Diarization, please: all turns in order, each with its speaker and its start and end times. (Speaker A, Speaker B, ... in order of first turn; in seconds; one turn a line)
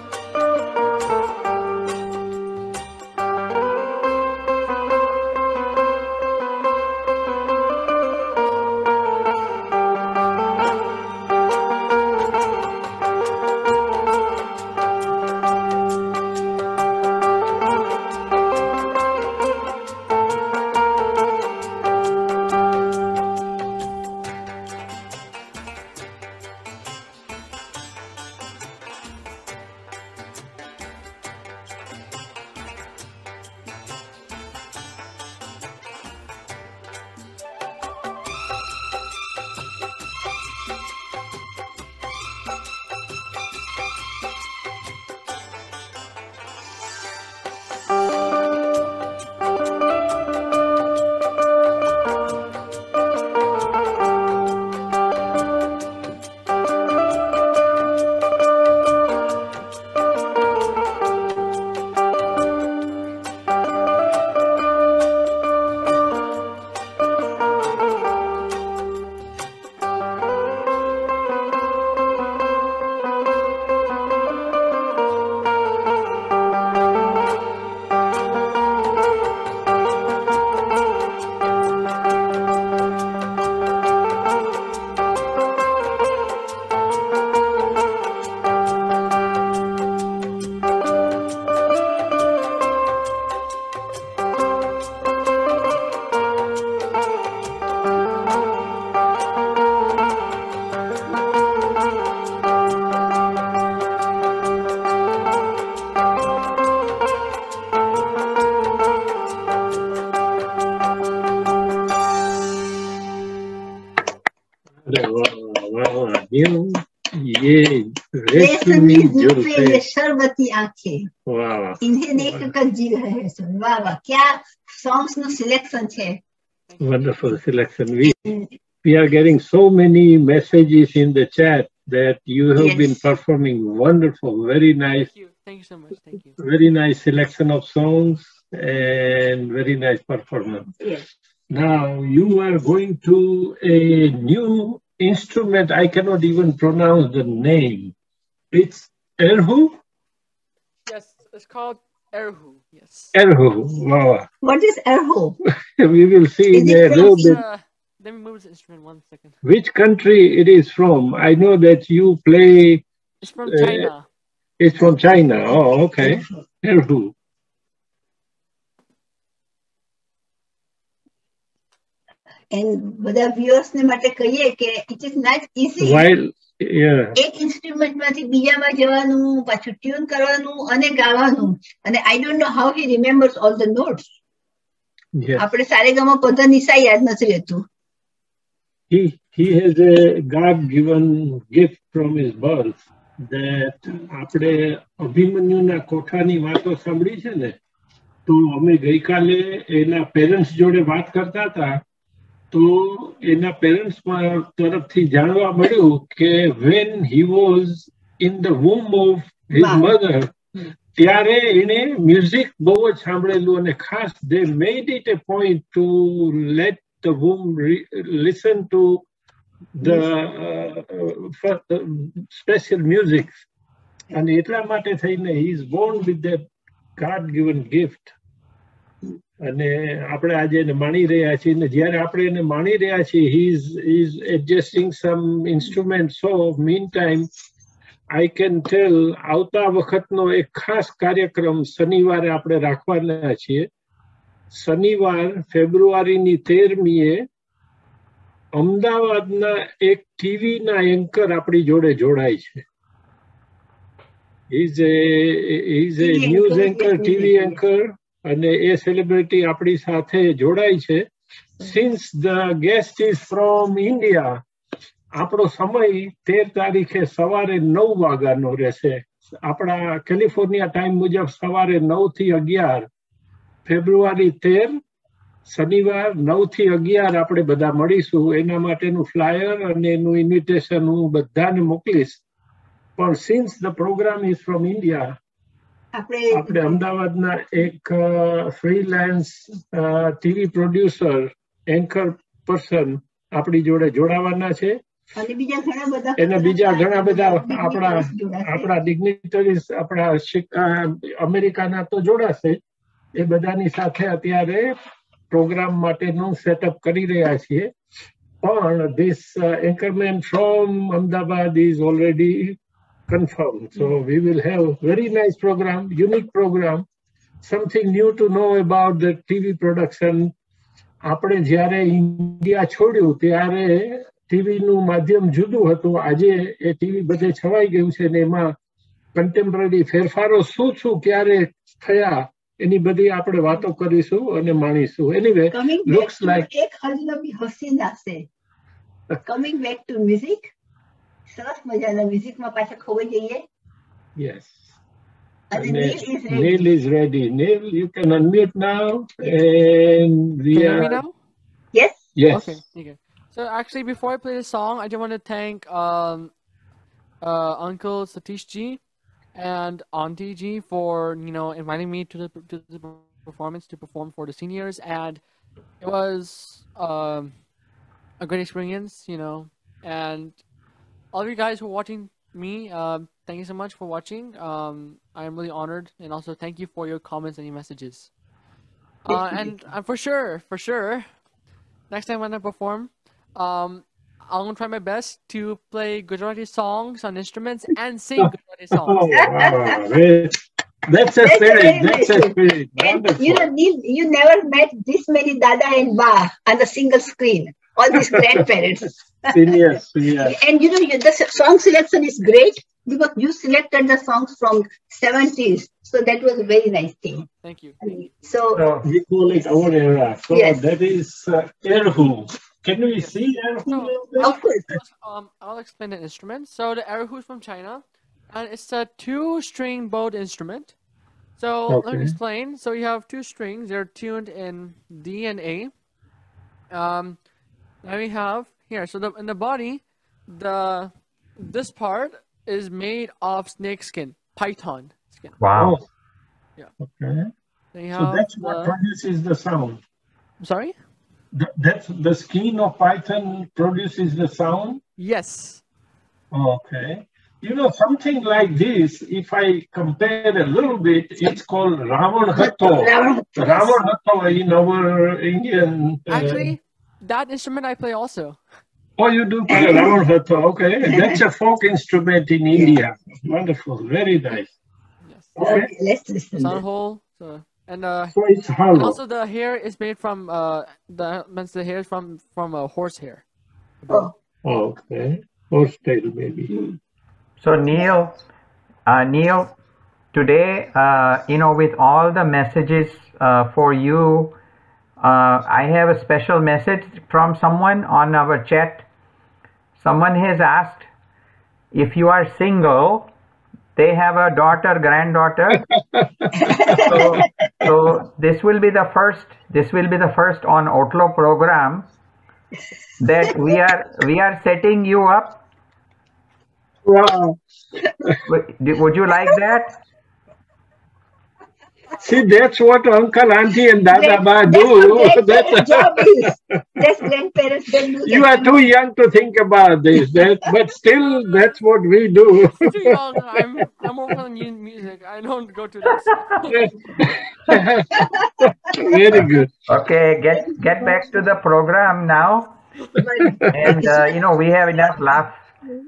Speaker A: 114.8-119.8
Speaker B: 118.3-121.1
Speaker A: 121.2-122.5
Speaker B: 121.8-126.2
Speaker C: 126.7-127.2
Speaker A: 126.8-128.2
Speaker A: 128.8-135.1
Speaker B: 132.6-133.0
Speaker C: 134.9-136.4
Speaker A: 136.4-140.7
Speaker A: 141.5-147.9
Speaker A: 148.5-149.8
Speaker C: 150.8-153.1
Speaker A: 153.1-154.3
Speaker B: 154.4-155.4
Speaker A: 155.7-157.4
Speaker B: 156.5-157.4
Speaker C: 156.8-159.4
Speaker A: 159.4-162.8
Speaker C: 163.2-164.0
Speaker A: 163.5-163.9
Speaker A: 164.6-167.1
Speaker B: 172.5-176.0
Speaker A: 175.8-177.2
Speaker B: 177.2-184.0
Speaker A: 185.1-185.5
Speaker B: 185.4-187.7
Speaker A: 188.9-197.6
Speaker A: 198.3-201.8
Speaker A: 202.5-210.3
Speaker B: 209.6-209.9
Speaker A: 210.9-219.0
Speaker A: 219.8-223.4
Speaker A: 224.1-226.4
Speaker A: 227.0-228.1
Speaker A: 229.4-237.3
Speaker A: 238.1-243.7
Speaker A: 244.5-247.2
Speaker A: 248.5-252.6
Speaker A: 254.5-261.0
Speaker B: 256.0-257.6
Speaker A: 261.6-264.4
Speaker A: 265.2-272.9
Speaker A: 273.6-274.7
Speaker A: 275.4-282.2
Speaker A: 283.0-285.1
Speaker B: 285.9-286.8
Speaker A: 286.3-294.8
Speaker B: 295.1-298.7
Speaker A: 296.2-302.6
Speaker A: 303.1-304.7
Speaker A: 305.3-307.7
Speaker A: 308.4-316.9
Speaker A: 317.4-320.3
Speaker A: 321.1-328.5
Speaker A: 329.1-336.5
Speaker B: 335.5-338.3
Speaker B: 339.2-340.5
Speaker B: 341.3-343.4
Speaker A: 344.1-344.7
Speaker B: 345.5-346.6
Speaker A: 345.5-351.0
Speaker C: 350.5-351.1
Speaker B: 351.7-352.0
Speaker A: 352.1-352.6
Speaker C: 352.3-356.3
Speaker C: 357.2-358.8
Speaker C: 359.3-365.2
Speaker C: 365.8-367.3
Speaker C: 368.2-370.4
Speaker C: 371.1-378.1
Speaker C: 379.0-381.1
Speaker B: 379.1-379.5
Speaker C: 381.9-389.0
Speaker A: 388.2-393.5
Speaker B: 389.1-389.8
Speaker B: 391.2-399.6
Speaker A: 397.9-398.3
Speaker A: 399.3-400.4
Speaker B: 400.2-407.3
Speaker C: 407.4-407.8
Speaker B: 407.8-408.6
Speaker D: 408.6-408.9
Speaker A: 408.8-414.4
Speaker B: 410.3-410.6
Speaker C: 413.6-420.7
Speaker B: 414.2-414.7
Speaker C: 421.4-425.7
Speaker A: 421.7-422.1
Speaker C: 426.7-427.2
Speaker C: 427.8-435.4
Speaker D: 435.4-435.8
Speaker A: 435.6-435.9
Speaker A: 436.8-437.3
Speaker C: 437.7-438.8
Speaker A: 437.9-439.8
Speaker C: 440.4-440.8
Speaker A: 441.3-444.8
Speaker C: 445.0-445.6
Speaker A: 446.3-456.5
Speaker B: 452.4-453.8
Speaker C: 456.1-458.4
Speaker A: 459.0-464.6
Speaker B: 459.5-459.9
Speaker B: 460.9-461.2
Speaker C: 465.0-465.3
Speaker A: 465.4-465.7
Speaker B: 465.4-466.6
Speaker C: 466.3-468.1
Speaker A: 468.1-469.0
Speaker C: 468.7-473.2
Speaker C: 473.8-474.1
Speaker A: 474.4-476.5
Speaker D: 477.4-478.1
Speaker D: 478.9-479.5
Speaker D: 480.1-484.4
Speaker D: 485.0-488.9
Speaker D: 489.8-490.9
Speaker D: 491.7-493.1
Speaker D: 493.8-495.6
Speaker A: 495.8-497.7
Speaker B: 496.4-497.2
Speaker D: 496.8-501.9
Speaker D: 503.0-505.4
Speaker A: 506.8-507.4
Speaker D: 508.2-509.8
Speaker A: 511.9-516.6
Speaker B: 513.9-518.6
Speaker A: 518.0-523.0
Speaker C: 522.5-526.8
Speaker A: 526.5-529.5
Speaker B: 527.9-529.0
Speaker D: 529.7-532.6
Speaker B: 532.9-534.1
Speaker A: 533.1-533.8
Speaker D: 533.5-535.5